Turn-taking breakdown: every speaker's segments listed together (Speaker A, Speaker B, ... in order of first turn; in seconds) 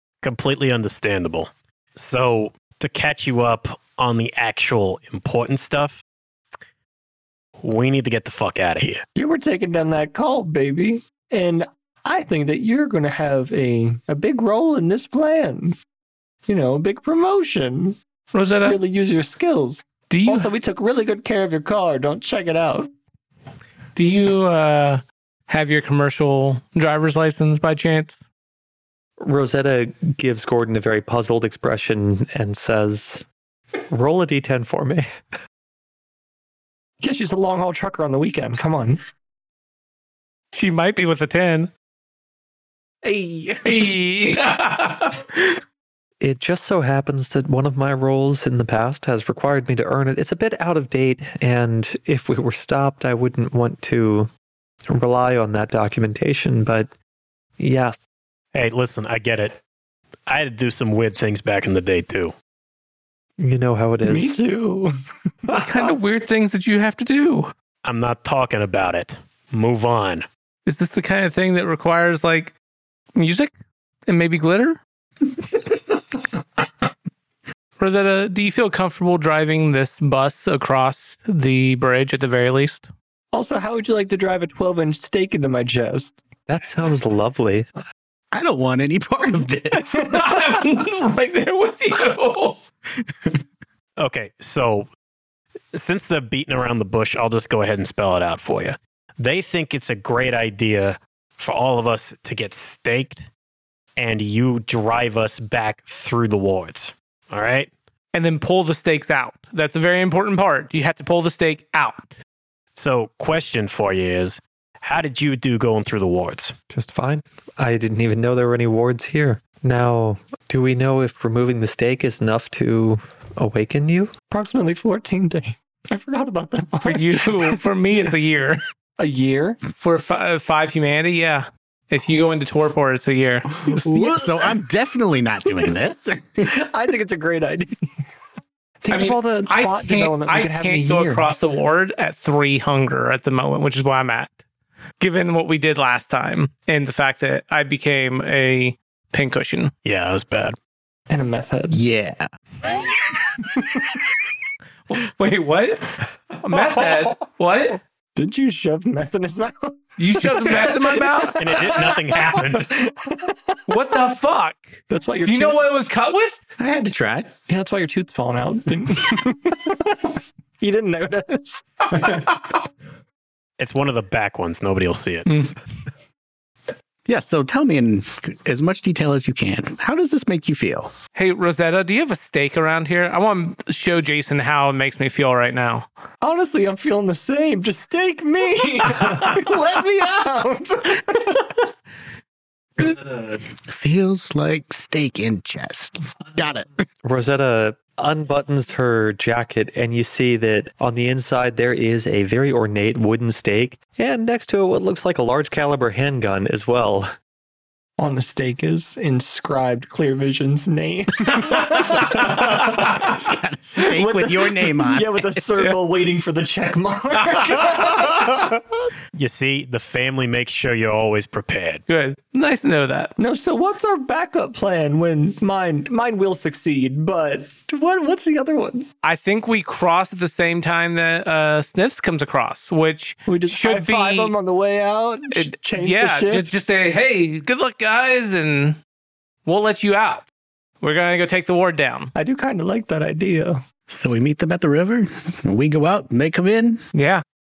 Speaker A: 0.2-6.0, 7.6-9.0, 58.5-59.6, 60.3-62.3, 67.8-70.3, 94.0-94.9, 95.7-103.3, 104.0-107.7, 112.8-116.5, 149.8-150.6, 161.4-162.8, 173.6-175.3, 219.1-221.8
Speaker B: 9.2-15.8, 16.5-18.0, 18.6-22.9, 37.0-39.0, 43.0-43.6, 64.0-64.9, 83.3-86.2, 124.3-127.6, 129.0-129.6, 136.5-137.9, 138.8-141.3, 151.1-151.8, 158.2-164.0, 164.9-165.6, 167.5-172.2, 186.2-191.6, 208.0-213.1, 213.8-218.8, 223.2-228.9, 233.3-236.5, 242.2-243.6
Speaker C: 18.3-18.8, 20.1-20.5, 24.0-28.2, 40.5-41.7, 43.6-45.6, 65.5-67.5, 70.7-72.5, 73.2-73.5, 74.1-74.8, 77.8-82.9, 89.8-92.6, 108.1-112.2, 126.8-128.6, 129.8-133.8, 138.9-144.3, 145.0-149.7, 154.9-157.8, 160.0-161.4, 163.7-166.4, 175.3-175.5, 181.2-185.9, 221.9-223.1, 229.0-234.3, 235.3-238.8, 239.4-240.3, 240.8-242.1, 246.9-247.2
Speaker D: 29.2-33.2, 33.9-35.1, 46.2-54.3, 54.9-56.9, 57.6-58.0, 63.4-64.4, 86.5-87.7, 116.7-124.1, 197.0-207.1
Speaker E: 88.3-90.1, 133.7-136.6, 151.7-152.3, 166.6-167.3, 177.1-180.9, 193.6-196.7, 212.0-215.4, 243.9-246.8